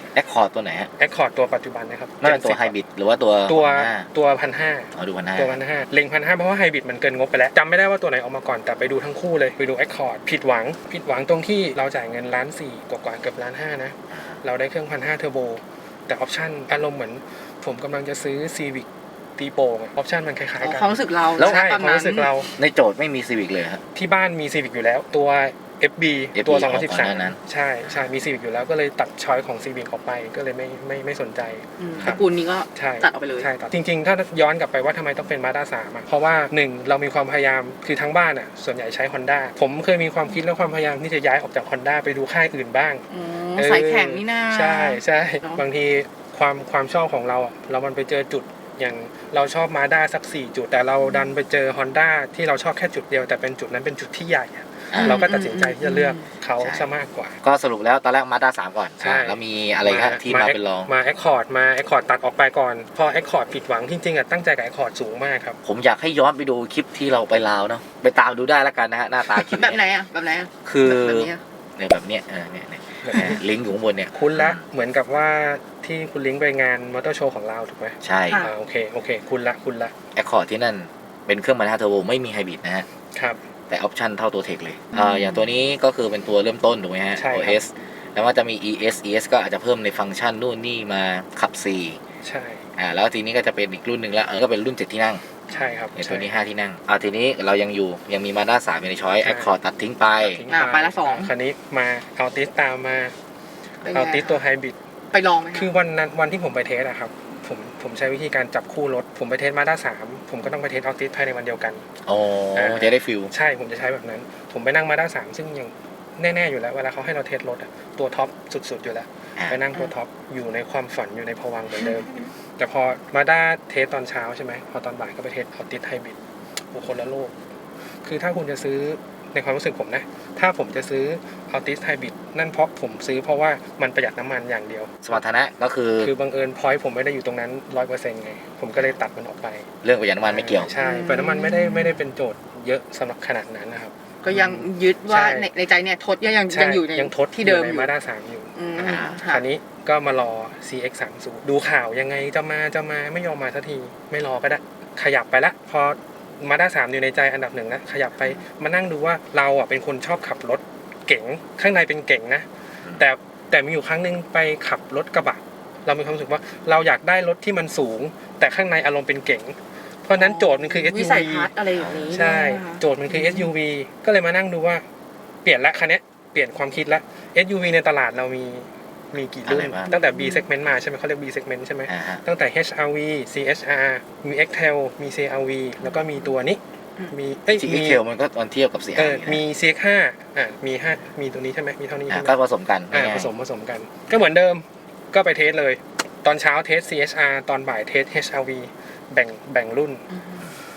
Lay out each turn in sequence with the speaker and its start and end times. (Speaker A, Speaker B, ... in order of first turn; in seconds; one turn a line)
Speaker A: 0.1-0.9
Speaker B: 1.0-2.7
Speaker A: 2.2-4.1
Speaker B: 3.5-22.5
Speaker A: 5.0-5.6
Speaker A: 14.1-14.4
Speaker C: 20.6-22.4
Speaker A: 22.6-23.8
Speaker B: 23.9-32.2
Speaker A: 26.4-27.4
Speaker C: 31.8-33.5
Speaker B: 32.7-43.0
Speaker C: 43.1-45.6
Speaker B: 43.6-57.4
Speaker A: 54.9-55.2
Speaker C: 55.0-56.2
Speaker A: 56.6-56.9
Speaker A: 57.4-60.9
Speaker B: 59.0-65.6
Speaker A: 65.7-69.8
Speaker C: 69.4-71.4
Speaker A: 70.7-74.6
Speaker B: 73.0-73.4
Speaker B: 74.1-79.9
Speaker A: 78.0-78.4
Speaker C: 78.3-78.5
Speaker A: 80.2-82.9
Speaker B: 83.1-83.4
Speaker A: 83.7-92.0
Speaker C: 84.9-85.5
Speaker B: 87.2-87.6
Speaker B: 92.2-92.6
Speaker A: 92.8-95.2
Speaker B: 95.5-96.3
Speaker C: 95.5-95.8
Speaker A: 96.0-100.4
Speaker B: 99.2-99.5
Speaker B: 100.2-103.1
Speaker C: 100.5-101.3
Speaker C: 103.8-104.4
Speaker B: 103.9-104.8
Speaker C: 105.1-105.7
Speaker B: 105.5-111.8
Speaker A: 112.1-113.3
Speaker B: 112.6-126.2
Speaker C: 121.8-122.0
Speaker B: 126.7-127.3
Speaker B: 128.0-135.2
Speaker A: 135.0-136.1
Speaker B: 136.0-139.7
Speaker A: 139.8-140.7
Speaker B: 140.2-145.5
Speaker C: 140.8-142.1
Speaker C: 144.2-147.9
Speaker B: 146.5-148.6
Speaker C: 148.6-149.5
Speaker A: 148.8-149.2
Speaker B: 149.3-162.5
Speaker B: 163.0-171.5
Speaker C: 170.2-173.5
Speaker A: 171.8-172.1
Speaker B: 172.1-174.8
Speaker B: 175.4-188.0
Speaker A: 179.4-179.9
Speaker C: 179.9-180.5
Speaker A: 181.9-182.2
Speaker A: 187.5-189.4
Speaker B: 189.0-192.3
Speaker A: 192.1-193.3
Speaker B: 192.9-200.0
Speaker C: 200.1-200.4